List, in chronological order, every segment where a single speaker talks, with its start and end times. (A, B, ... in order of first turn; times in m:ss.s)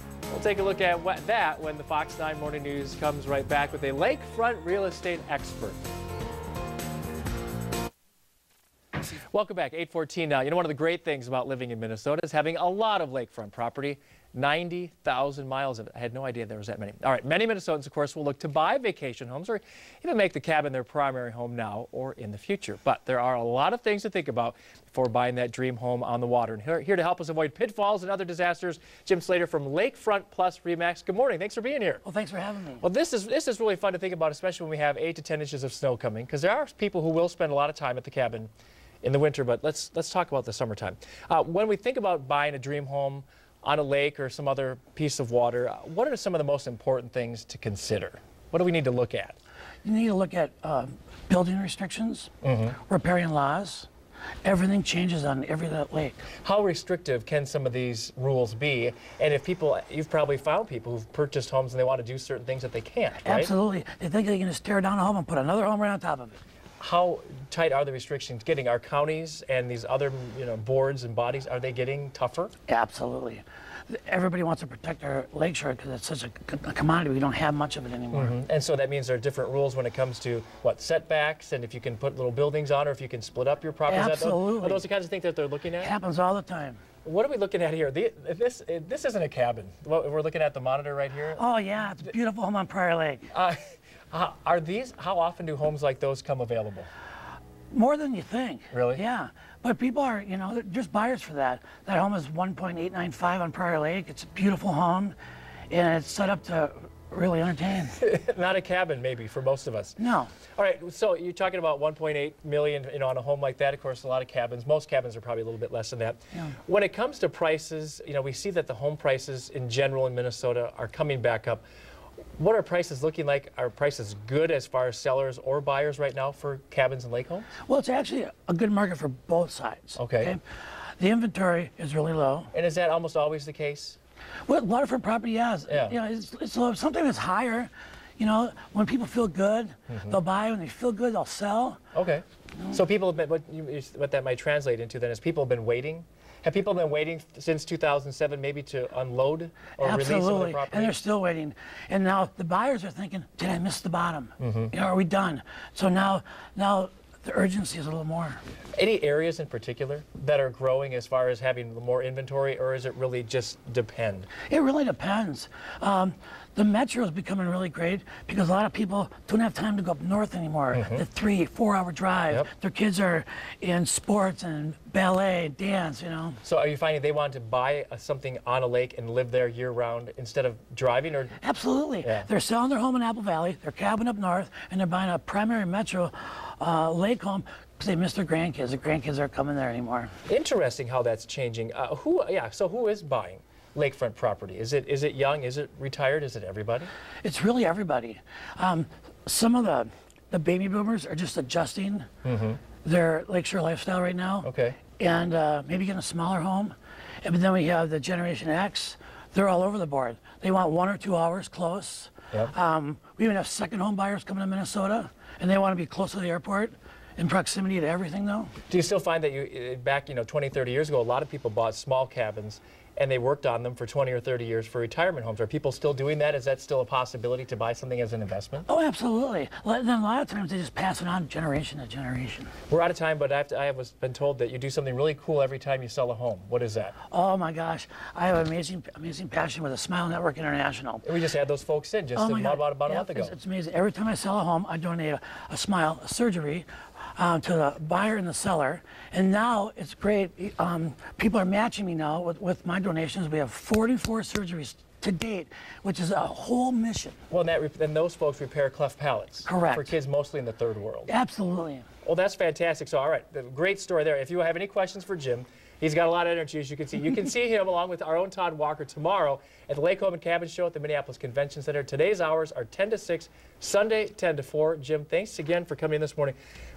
0:00.3-0:05.8 A
0:09.1-0:32.0 A
0:32.0-0:32.8 B
0:32.8-0:38.5 A
0:39.0-0:49.4 A
0:49.8-0:52.3 B
0:52.4-0:52.8 A
0:52.8-0:53.9 B
0:54.4-0:56.2 B
0:56.4-1:03.5 A
1:03.2-1:06.4 B
1:06.8-1:12.5 A
1:12.7-1:18.4 B
1:18.1-1:25.9 A
1:23.9-1:24.9 B
1:25.8-1:26.8 B
1:27.0-1:31.4 A
1:31.4-1:33.3 B
1:33.3-1:33.6 A
1:34.1-1:36.9 A
1:37.7-1:45.2 B
1:38.7-1:39.0 A
1:45.7-1:48.0 B
1:48.0-1:50.0 A
1:50.0-1:50.3 B
1:50.5-2:01.6 A
2:02.4-2:07.5 A
2:07.7-2:10.4 B
2:10.0-2:10.4 A
2:11.0-2:12.5 B
2:12.5-2:14.0 A
2:14.5-2:21.8 B
2:15.7-2:16.0 A
2:19.9-2:20.2 A
2:21.9-2:31.0 A
2:29.8-2:38.4 B
2:34.4-2:34.7 A
2:38.8-2:44.3 A
2:44.5-2:56.4 B
2:50.7-2:51.0 A
2:56.4-3:01.4 A
3:01.4-3:10.1 B
3:02.0-3:02.3 A
3:10.3-3:16.9 A
3:17.2-3:22.1 B
3:22.2-3:22.6 A
3:22.8-3:38.5 B
3:24.4-3:24.8 A
3:38.7-3:48.7 A
3:48.7-3:52.5 B
3:52.7-3:57.0 A
3:57.1-4:01.1 B
4:01.0-4:03.4 A
4:02.2-4:17.2 B
4:17.3-4:21.1 A
4:19.4-4:19.9 B
4:21.1-4:21.9 B
4:22.0-4:36.4 A